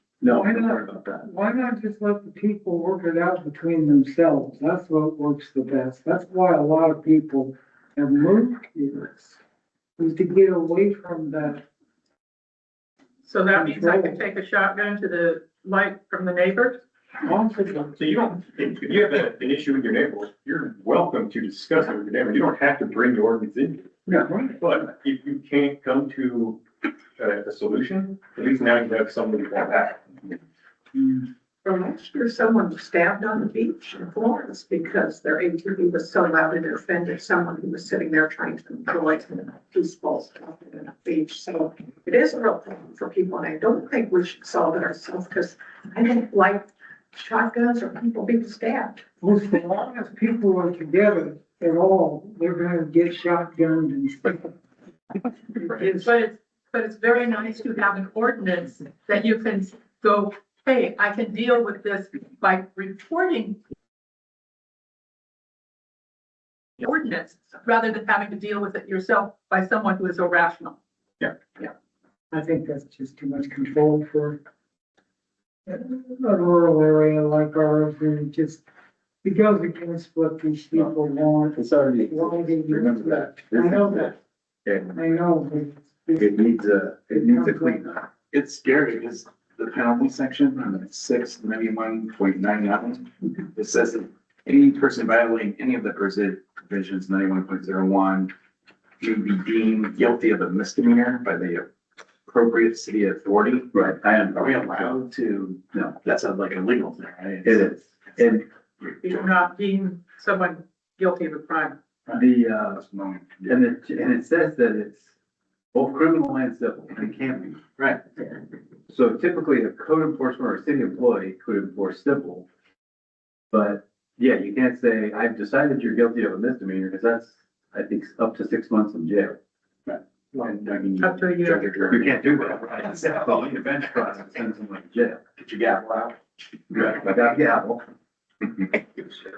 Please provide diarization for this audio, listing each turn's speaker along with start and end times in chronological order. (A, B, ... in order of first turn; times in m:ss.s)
0:00.2-0:01.3 A
0:00.3-0:09.4 B
0:10.0-0:11.6 B
0:13.2-0:16.8 C
0:13.5-0:14.2 B
0:17.4-0:17.9 B
0:18.0-0:23.8 D
0:24.6-0:26.6 D
0:27.2-0:30.0 D
0:31.6-0:49.0 E
0:49.2-0:54.5 B
0:55.6-0:56.1 B
0:55.6-1:03.6 C
1:06.8-1:10.8 C
1:12.3-1:14.4 B
1:15.7-1:18.6 B
1:19.2-1:24.2 B
1:21.5-1:24.1 A
1:24.7-1:25.0 A
1:24.8-1:27.8 B
1:26.2-1:28.1 A
1:28.3-1:38.3 F
1:39.0-1:41.7 F
1:42.3-1:47.7 F
1:43.7-1:44.9 A
1:47.4-1:48.4 A
1:49.0-1:51.8 C
1:52.1-1:53.6 F
1:52.2-1:52.8 A
1:53.4-1:55.1 A
1:55.7-1:58.0 A
1:58.9-2:02.5 A
2:03.5-2:09.4 A
2:10.4-2:12.2 F
2:11.0-2:11.7 C
2:11.9-2:15.3 A
2:15.4-2:16.1 F
2:16.7-2:17.8 A